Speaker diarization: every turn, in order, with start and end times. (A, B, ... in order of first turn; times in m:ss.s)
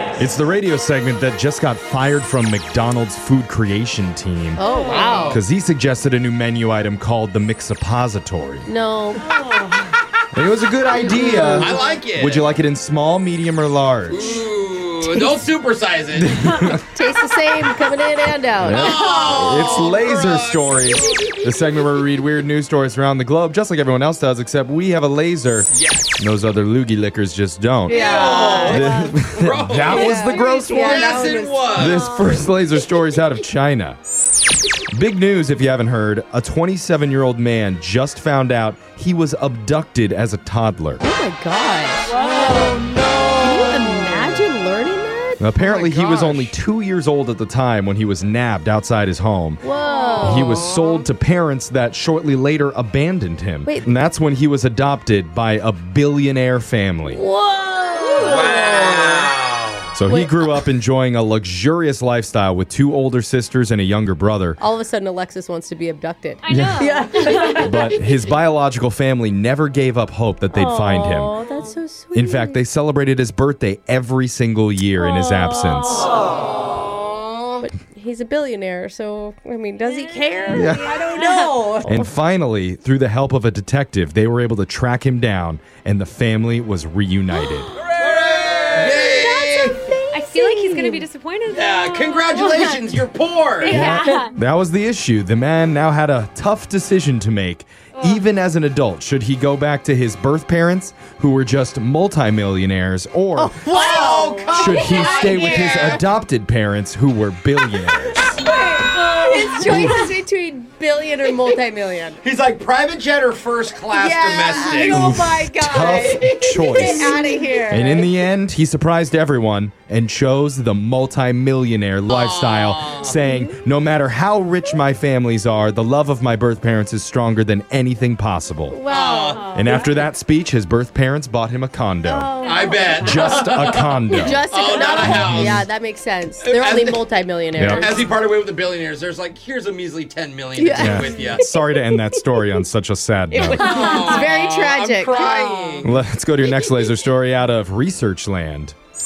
0:00.2-0:04.6 A
0:04.6-0:05.4 B
0:04.7-0:05.3 C
0:04.8-0:05.4 D
0:05.3-0:08.7 A
0:08.7-0:09.2 B
0:09.2-0:10.0 C
0:10.3-0:14.4 A
0:10.9-0:12.0 B
0:11.5-0:12.5 D
0:14.1-0:16.4 D
0:16.2-0:16.8 A
0:16.8-0:19.2 B
0:18.6-0:31.2 A
0:18.7-0:22.0 D
0:25.7-0:26.2 D
0:27.9-0:29.1 B
0:27.9-0:32.1 D
0:28.5-0:29.1 C
0:29.8-0:32.0 B
0:31.7-0:34.0 A
0:32.0-0:32.4 C
0:34.9-0:41.0 A
0:41.0-0:42.8 B
0:42.1-0:42.8 C
0:42.2-0:44.3 D
0:43.4-0:45.4 B
0:45.4-0:49.6 A
0:45.6-0:46.5 D
0:49.6-0:50.6 B
0:49.9-0:50.4 C
0:50.2-0:57.2 A
0:50.2-0:51.1 D
0:57.2-0:59.3 B
0:58.1-0:58.9 C
0:58.2-0:59.9 D
0:59.9-1:04.6 A
1:00.0-1:00.6 B
1:04.6-1:08.2 B
1:06.4-1:07.7 C
1:06.5-1:06.9 A
1:07.6-1:11.4 A
1:10.5-1:12.6 B
1:12.1-1:16.1 A
1:16.7-1:17.4 D
1:17.6-1:22.1 B
1:19.9-1:21.6 C
1:20.5-1:21.0 A
1:21.8-1:27.7 A
1:27.5-1:27.8 B
1:27.8-1:29.8 D
1:28.3-1:31.0 B
1:30.1-1:32.8 C
1:31.5-1:33.9 D
1:32.3-1:33.0 B
1:33.6-1:34.3 C
1:33.7-1:43.6 A
1:33.7-1:34.2 B
1:43.4-1:46.0 B
1:43.7-1:46.0 D
1:44.5-1:48.4 A
1:44.8-1:45.4 C
1:48.3-1:52.2 B
1:49.0-1:49.8 C
1:49.7-1:50.1 A
1:52.2-1:55.1 D
1:53.9-1:58.1 B
1:54.8-2:08.8 A
1:56.8-1:57.2 C
2:02.1-2:03.2 D
2:03.2-2:03.5 B
2:08.7-2:09.6 B
2:08.9-2:09.6 D
2:09.3-2:10.0 C
2:09.5-2:12.3 A
2:12.0-2:13.3 B
2:12.4-2:15.6 D
2:12.5-2:12.9 C
2:12.9-2:14.4 A
2:14.1-2:18.1 B
2:15.0-2:15.6 A
2:16.4-2:17.0 D
2:17.6-2:17.9 A
2:17.6-2:21.5 D
2:20.6-2:22.3 B
2:20.8-2:23.8 A
2:23.3-2:25.4 B
2:23.4-2:24.4 C
2:23.5-2:25.9 D
2:25.0-2:25.9 C
2:25.8-2:28.8 A